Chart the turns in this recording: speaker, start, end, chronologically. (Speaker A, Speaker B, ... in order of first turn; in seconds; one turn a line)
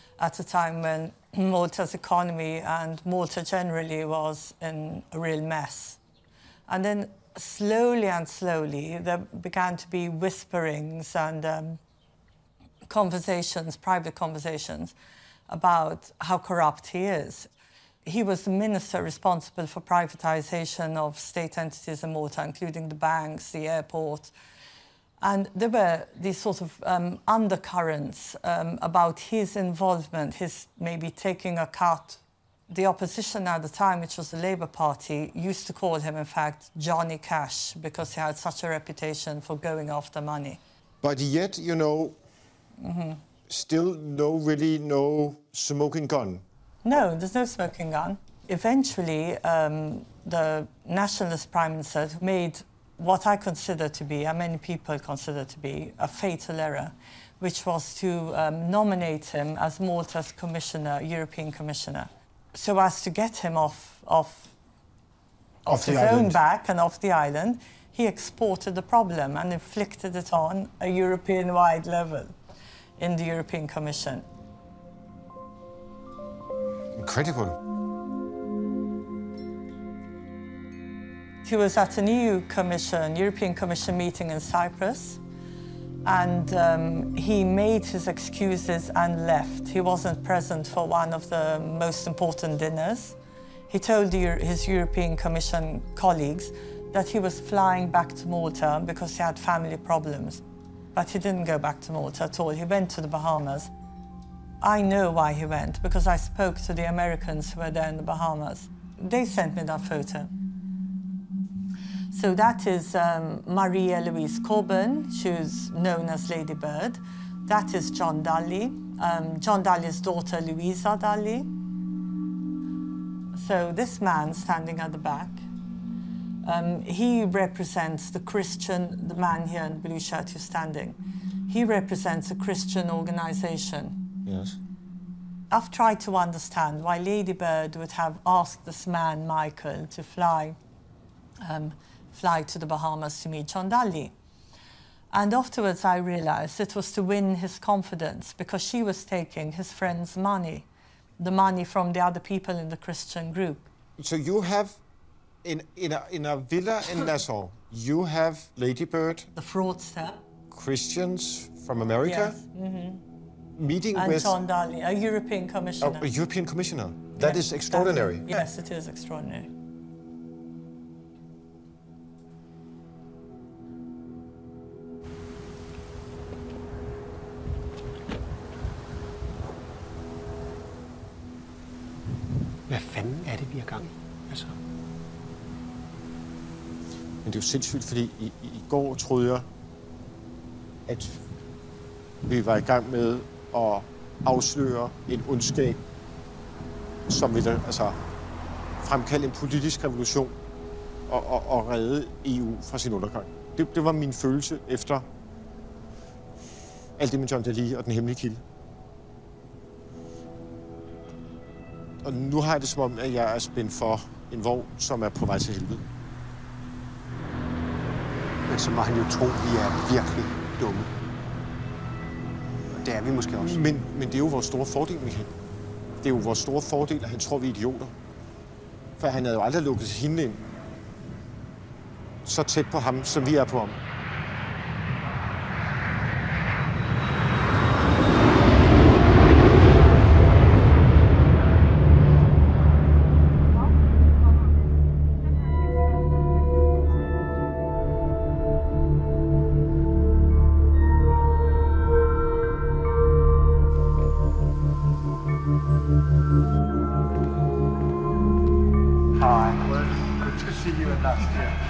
Speaker A: 0.2-6.0
Speaker A: 6.7-11.8
Speaker A: 12.9-14.9
Speaker A: 15.5-17.5
Speaker A: 18.1-24.3
Speaker A: 25.2-40.6
Speaker B: 41.0-42.2
Speaker A: 42.8-43.2
Speaker B: 43.5-46.4
Speaker A: 46.9-64.5
Speaker A: 65.7-72.3
Speaker B: 65.7-66.4
Speaker A: 73.0-74.2
Speaker B: 77.0-77.6
Speaker A: 81.4-85.2
Speaker A: 86.0-93.2
Speaker A: 93.7-100.4
Speaker A: 101.0-103.7
Speaker A: 104.6-110.3
Speaker A: 112.1-121.5
Speaker A: 123.4-125.4
Speaker A: 126.4-134.0
Speaker B: 134.3-134.6
Speaker A: 135.5-140.6
Speaker A: 141.4-144.1
Speaker A: 145.1-150.7
Speaker A: 151.2-153.7
Speaker B: 154.0-154.8
Speaker B: 155.4-159.3
Speaker A: 159.4-160.2
Speaker B: 160.5-162.4
Speaker A: 162.0-163.0
Speaker B: 163.6-164.4
Speaker A: 163.9-166.1
Speaker B: 165.8-168.5
Speaker A: 167.2-169.5
Speaker C: 182.7-184.6
Speaker B: 187.2-189.5
Speaker B: 190.9-191.2
Speaker B: 192.3-195.8
Speaker B: 197.1-198.0
Speaker B: 198.8-200.3
Speaker B: 201.1-205.1
Speaker B: 207.0-208.4
Speaker B: 212.0-215.8
Speaker C: 218.5-220.9
Speaker C: 222.7-223.6
Speaker B: 223.4-225.3
Speaker B: 226.0-227.9
Speaker B: 229.0-230.4
Speaker B: 232.2-233.8